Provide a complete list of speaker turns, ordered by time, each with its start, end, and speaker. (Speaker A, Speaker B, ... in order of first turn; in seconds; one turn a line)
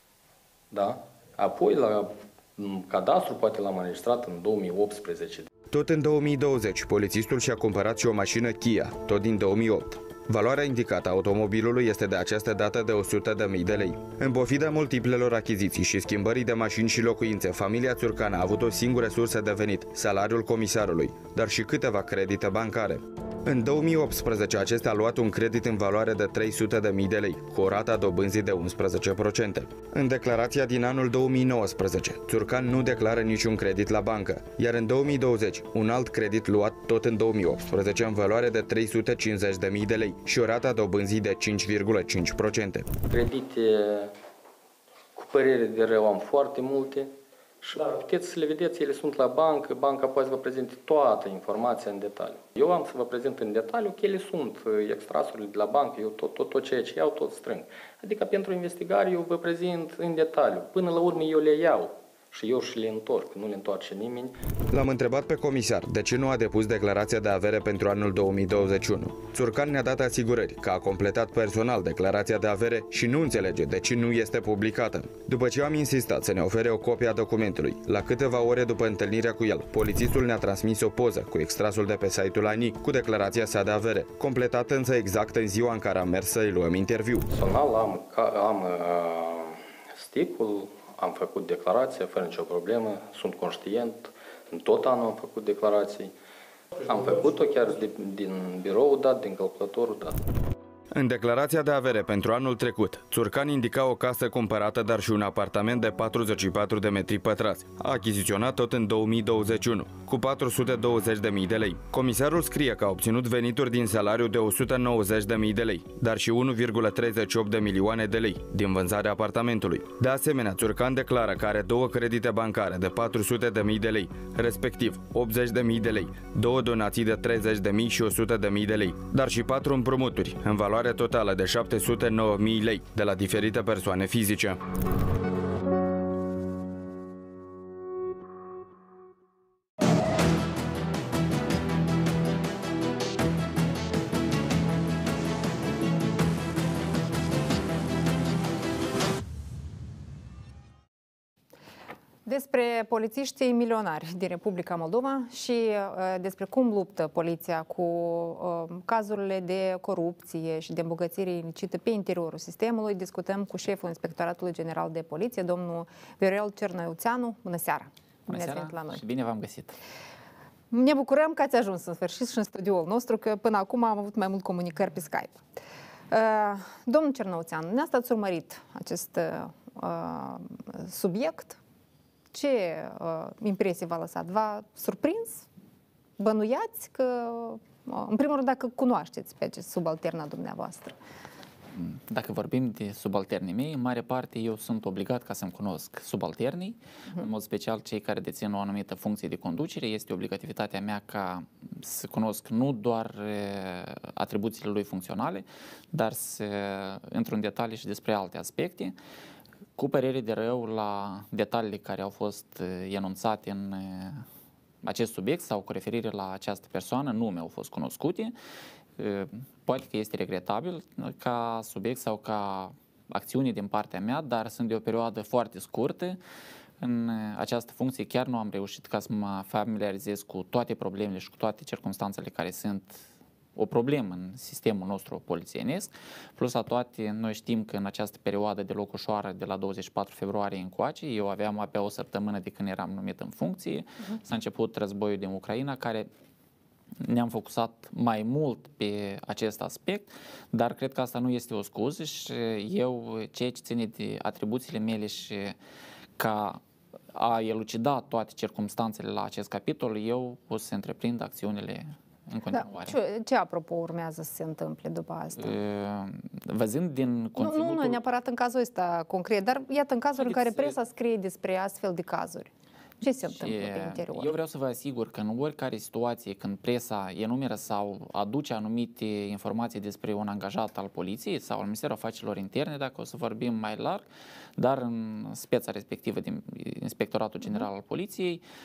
Speaker A: 0.7-5.5
Speaker B: 5.7-42.9
Speaker A: 43.1-44.1
Speaker A: 45.1-47.1
Speaker A: 47.6-64.3
Speaker B: 64.7-87.3
Speaker A: 87.3-96.1
Speaker A: 96.8-100.2
Speaker B: 100.9-134.6
Speaker C: 152.3-169.0
Speaker D: 168.3-169.8
Speaker C: 170.7-175.4
Speaker C: 176.1-181.6
Speaker C: 182.3-185.5
Speaker C: 186.2-191.0
Speaker D: 191.7-208.9
Speaker D: 209.8-214.2
Speaker D: 214.8-218.3
Speaker D: 219.0-226.2
Speaker D: 226.8-233.0
Speaker D: 233.6-246.1
Speaker D: 247.0-255.6
Speaker D: 256.2-256.6
Speaker D: 257.1-263.0
Speaker C: 262.5-265.6
Speaker D: 265.4-268.0
Speaker C: 267.4-274.3
Speaker D: 270.2-270.8
Speaker D: 273.3-284.0
Speaker D: 284.6-288.4